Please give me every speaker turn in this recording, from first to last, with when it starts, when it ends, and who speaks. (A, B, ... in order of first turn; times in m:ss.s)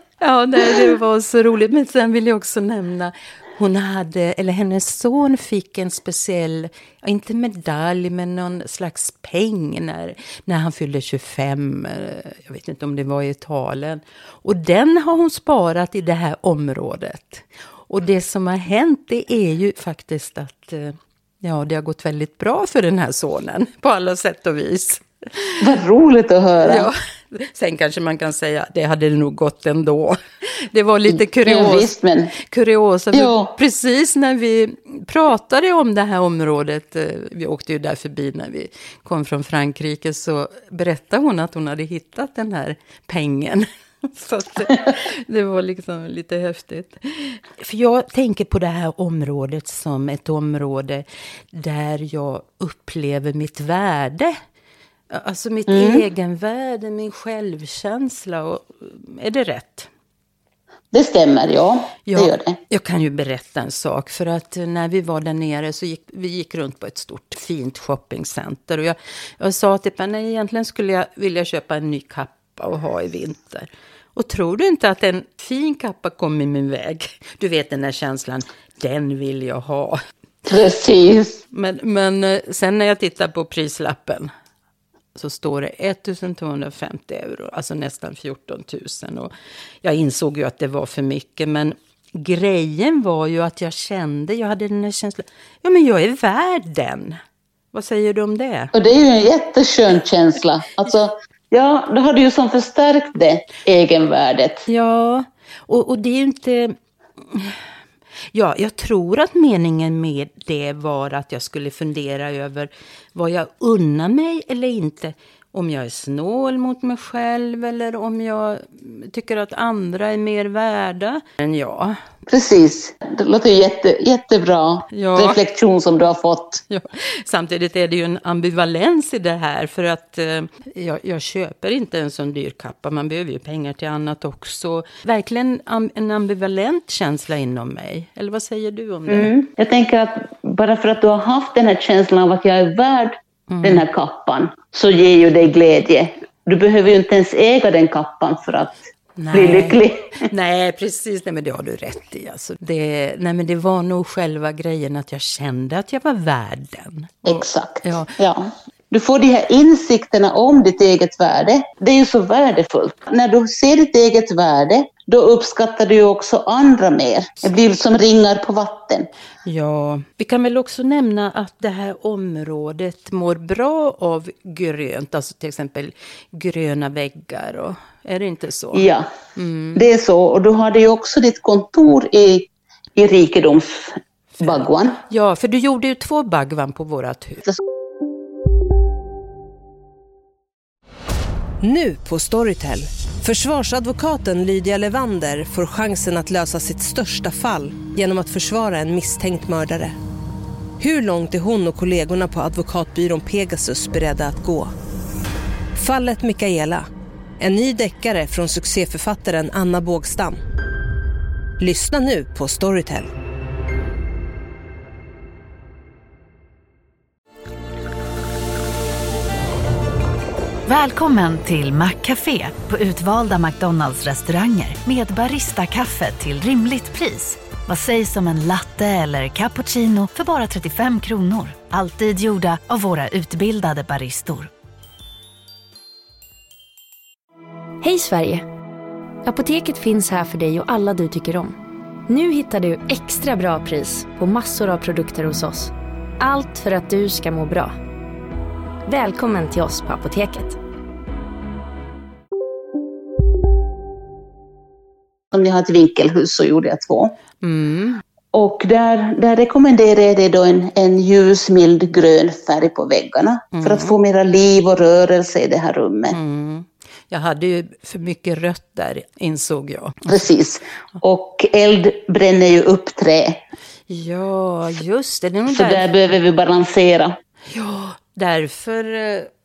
0:00.2-0:25.6 A
0:25.6-0:26.9 B
0:26.6-0:54.3 A
0:31.4-0:32.3 B
0:33.1-0:33.5 B
0:55.1-0:59.9 A
0:55.7-0:56.0 B
1:00.9-1:02.6 B
1:02.0-1:20.0 A
1:20.4-1:21.4 B
1:21.5-1:24.3 A
1:25.2-1:29.3 A
1:29.8-1:37.2 A
1:37.7-1:38.7 A
1:38.7-1:44.6 B
1:44.7-1:47.6 A
1:48.3-2:02.0 A
2:02.3-2:06.6 B
2:04.9-2:05.4 A
2:06.7-2:19.3 A
2:19.1-2:28.8 B
2:23.5-2:23.8 A
2:29.2-2:38.1 A
2:29.3-2:30.2 B
2:37.2-2:49.1 B
2:49.4-2:59.9 A
2:58.7-2:59.1 B
2:59.7-3:05.0 B
3:04.4-3:07.5 A
3:11.6-3:19.9 C
3:20.8-3:24.7 C
3:25.7-3:26.8 C
3:27.4-3:30.4 C
3:31.6-3:33.1 C
3:40.6-3:54.5 D
3:57.8-3:58.5 E
3:59.2-4:01.6 E
4:02.1-4:07.7 E
4:08.8-4:10.6 E
4:15.3-4:17.1 B
4:17.4-4:18.0 A
4:18.3-4:26.2 B
4:23.5-4:23.9 A
4:26.1-4:30.1 A
4:30.1-4:33.4 B
4:33.9-4:35.9 A
4:35.5-4:37.2 B
4:37.5-4:39.3 A